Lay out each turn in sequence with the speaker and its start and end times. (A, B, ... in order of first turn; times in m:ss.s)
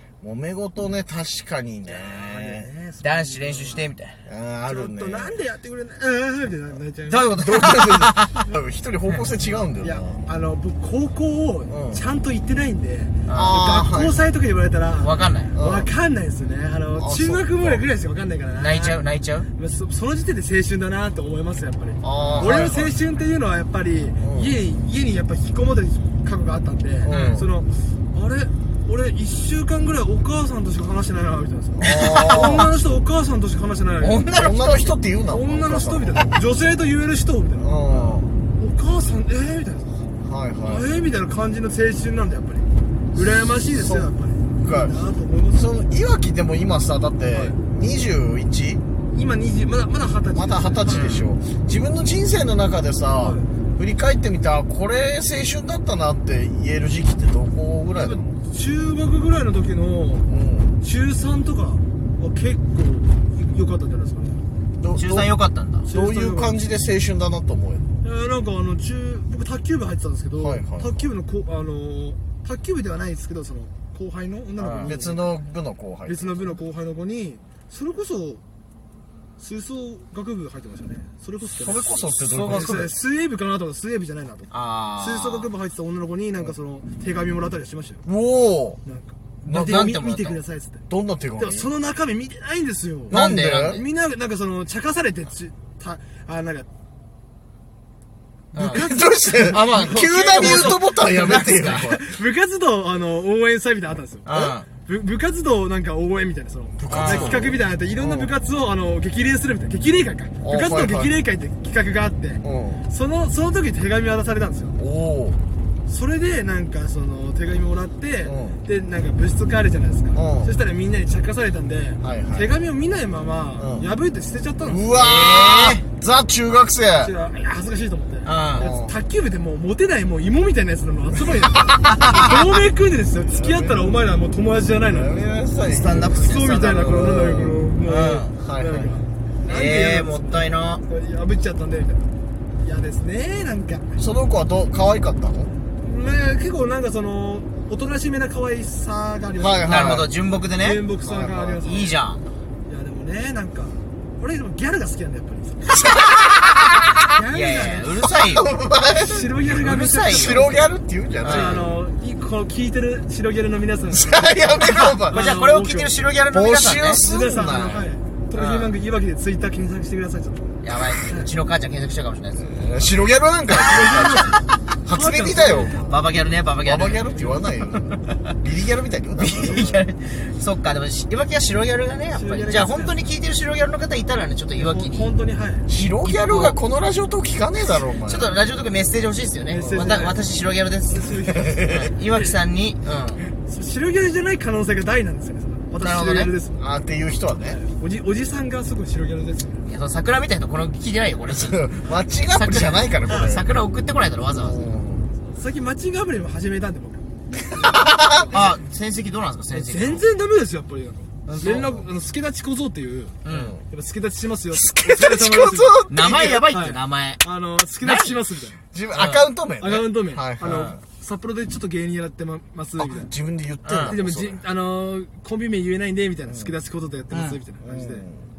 0:00.2-0:02.7 A
0:01.9-0:03.9 B
0:03.0-0:04.2 C
0:04.3-0:05.3 A
0:04.7-0:07.4 B
0:07.1-0:08.4 C
0:07.4-0:10.2 A
0:09.8-0:19.0 B
0:11.7-0:12.0 A
0:13.2-0:13.6 C
0:13.3-0:14.2 A
0:15.0-0:15.6 C
0:15.5-0:15.9 A
0:17.0-0:17.8 A
0:18.6-0:19.5 C
0:19.6-0:34.2 B
0:22.0-0:22.9 A
0:22.2-0:22.7 C
0:24.2-0:24.5 A
0:27.1-0:27.5 C
0:27.1-0:27.5 A
0:31.8-0:32.7 A
0:31.8-0:32.6 C
0:34.0-0:35.0 C
0:34.3-0:36.4 A
0:35.3-0:40.1 B
0:37.6-0:38.3 A
0:40.2-0:40.9 A
0:40.7-0:45.7 B
0:43.2-0:45.0 A
0:45.5-0:48.8 A
0:49.1-0:51.1 B
0:50.4-0:58.4 A
0:50.8-0:51.3 C
0:53.2-0:53.5 B
0:57.9-1:00.2 B
1:00.3-1:00.8 A
1:00.8-1:04.4 B
1:04.8-1:05.3 A
1:05.0-1:05.9 C
1:05.9-1:06.6 B
1:05.9-1:07.9 A
1:08.0-1:15.3 B
1:10.4-1:11.0 A
1:14.6-1:15.0 C
1:14.8-1:16.5 A
1:16.1-1:18.4 B
1:19.4-1:28.0 B
1:21.6-1:22.9 A
1:21.7-1:22.9 C
1:24.5-1:25.5 C
1:28.1-1:28.8 A
1:28.8-1:30.8 B
1:29.4-1:30.4 C
1:29.5-1:30.0 A
1:30.9-1:31.7 A
1:31.4-1:36.7 B
1:33.1-1:33.8 A
1:33.1-1:33.8 C
1:38.5-1:38.9 C
1:38.5-1:54.8 B
1:38.7-1:42.0 A
1:39.4-1:41.9 C
1:44.3-1:44.7 C
1:46.8-1:48.3 A
1:46.9-1:47.4 C
1:50.4-1:51.2 A
1:52.4-1:52.8 A
1:54.8-1:55.4 A
1:55.9-2:05.0 B
1:58.2-1:58.6 A
2:00.1-2:00.5 A
2:02.0-2:02.5 A
2:03.6-2:03.9 A
2:04.6-2:07.1 A
2:05.0-2:05.8 C
2:06.9-2:22.1 B
2:08.2-2:08.7 C
2:08.5-2:09.0 A
2:11.9-2:12.3 C
2:13.3-2:14.0 A
2:14.8-2:16.2 A
2:15.6-2:18.4 C
2:16.9-2:17.7 A
2:18.4-2:19.0 A
2:19.4-2:20.8 C
2:22.6-2:24.0 B
2:24.0-2:25.5 A
2:25.8-2:30.0 B
2:29.4-2:30.1 A
2:29.7-2:30.8 C
2:30.6-2:32.0 B
2:31.0-2:31.6 A
2:31.6-2:32.2 C
2:32.7-2:35.9 B
2:37.1-2:38.0 B
2:37.2-2:38.5 C
2:38.0-2:41.8 A
2:38.9-2:40.7 B
2:39.5-2:40.6 C
2:41.2-2:41.6 C
2:41.2-2:46.0 B
2:43.9-2:45.3 A
2:44.6-2:47.1 C
2:46.3-2:47.9 A
2:47.0-2:51.3 B
2:48.3-2:48.7 C
2:50.6-2:52.8 C
2:52.5-2:56.0 A
2:53.6-2:55.8 B
2:53.7-2:54.2 C
2:55.7-2:58.0 C
2:56.6-2:59.8 A
2:57.0-2:57.5 B
2:59.2-3:05.1 C
2:59.3-2:59.8 B
3:02.1-3:03.2 B
3:04.5-3:05.7 B
3:05.7-3:08.4 A
3:05.7-3:06.6 C
3:08.0-3:13.2 C
3:09.4-3:10.2 B
3:09.6-3:10.1 A
3:10.9-3:12.4 B
3:11.5-3:11.9 A
3:13.4-3:16.6 B
3:15.8-3:16.3 C
3:16.6-3:17.6 A
3:17.5-3:19.7 B
3:19.7-3:21.7 C
3:21.4-3:23.5 A
3:22.3-3:24.8 C
3:24.3-3:25.1 A
3:25.2-3:28.4 B
3:27.5-3:28.4 A
3:28.3-3:30.0 C
3:29.5-3:33.2 B
3:31.3-3:31.8 C
3:33.2-3:33.6 C
3:33.3-3:33.6 A
3:33.7-3:38.6 B
3:34.5-3:36.5 A
3:35.9-3:37.2 C
3:37.8-3:38.2 A
3:38.7-3:40.8 A
3:38.9-3:39.3 C
3:39.6-3:43.1 B
3:40.5-3:40.8 C
3:42.8-3:44.4 A
3:43.6-3:44.0 C
3:43.8-3:48.1 B
3:46.3-3:46.5 A
3:47.1-3:47.4 C
3:47.6-3:48.3 A